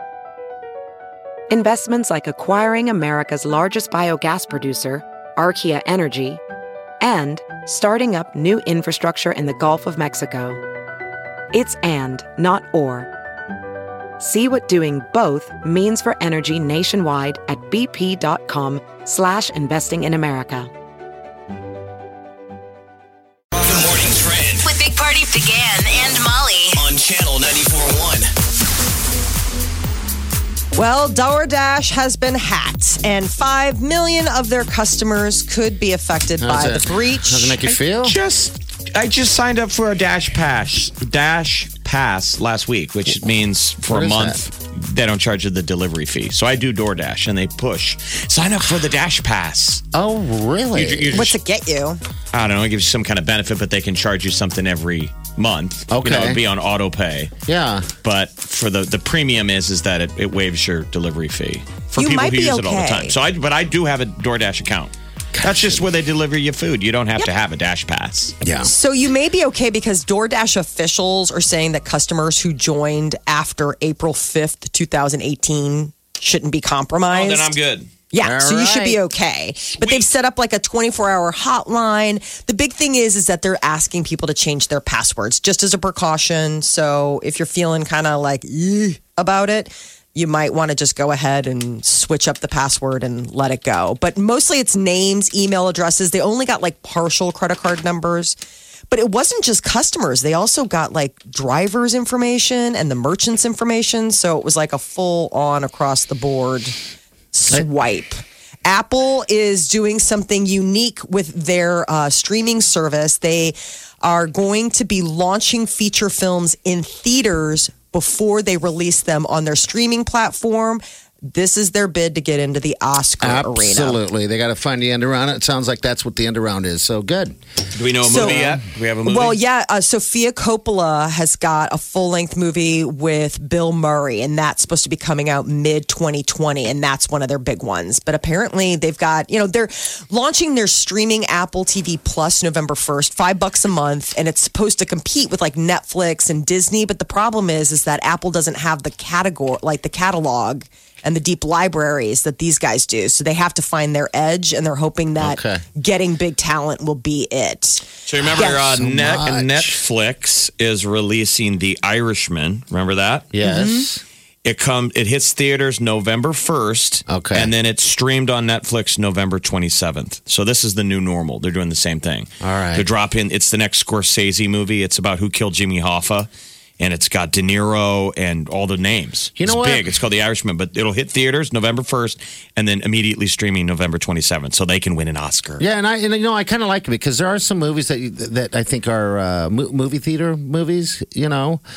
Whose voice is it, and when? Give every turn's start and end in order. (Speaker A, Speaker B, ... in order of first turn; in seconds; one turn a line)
Speaker A: 1.5-6.4
Speaker A: 7.0-10.6
Speaker A: 11.5-13.1
Speaker A: 14.2-20.7
Speaker B: 23.6-24.6
Speaker C: 24.6-26.8
Speaker B: 26.8-28.3
Speaker D: 30.8-37.6
Speaker E: 36.4-38.2
Speaker F: 37.8-49.8
Speaker E: 43.9-44.4
Speaker E: 49.9-51.1
Speaker F: 50.7-51.4
Speaker D: 51.1-52.0
Speaker F: 52.3-57.3
Speaker E: 55.9-56.4
Speaker E: 57.5-57.9
Speaker F: 58.0-68.3
Speaker D: 62.0-63.1
Speaker E: 65.3-65.8
Speaker E: 68.4-68.7
Speaker D: 68.6-77.5
Speaker F: 77.1-77.9
Speaker D: 78.1-98.4
Speaker E: 78.2-79.0
Speaker D: 98.9-106.7
Speaker D: 107.3-124.0
Speaker E: 123.2-127.4
Speaker F: 127.7-129.4
Speaker D: 128.1-128.4
Speaker E: 128.1-128.6
Speaker D: 129.0-157.8
Speaker E: 155.2-155.6
Speaker F: 158.1-163.3
Speaker D: 158.4-158.6
Speaker E: 158.4-159.8
Speaker E: 163.3-164.0
Speaker D: 163.4-163.8
Speaker F: 164.4-176.3
Speaker E: 167.1-167.5
Speaker E: 172.4-172.9
Speaker F: 176.8-185.6
Speaker E: 179.4-179.9
Speaker E: 185.6-191.6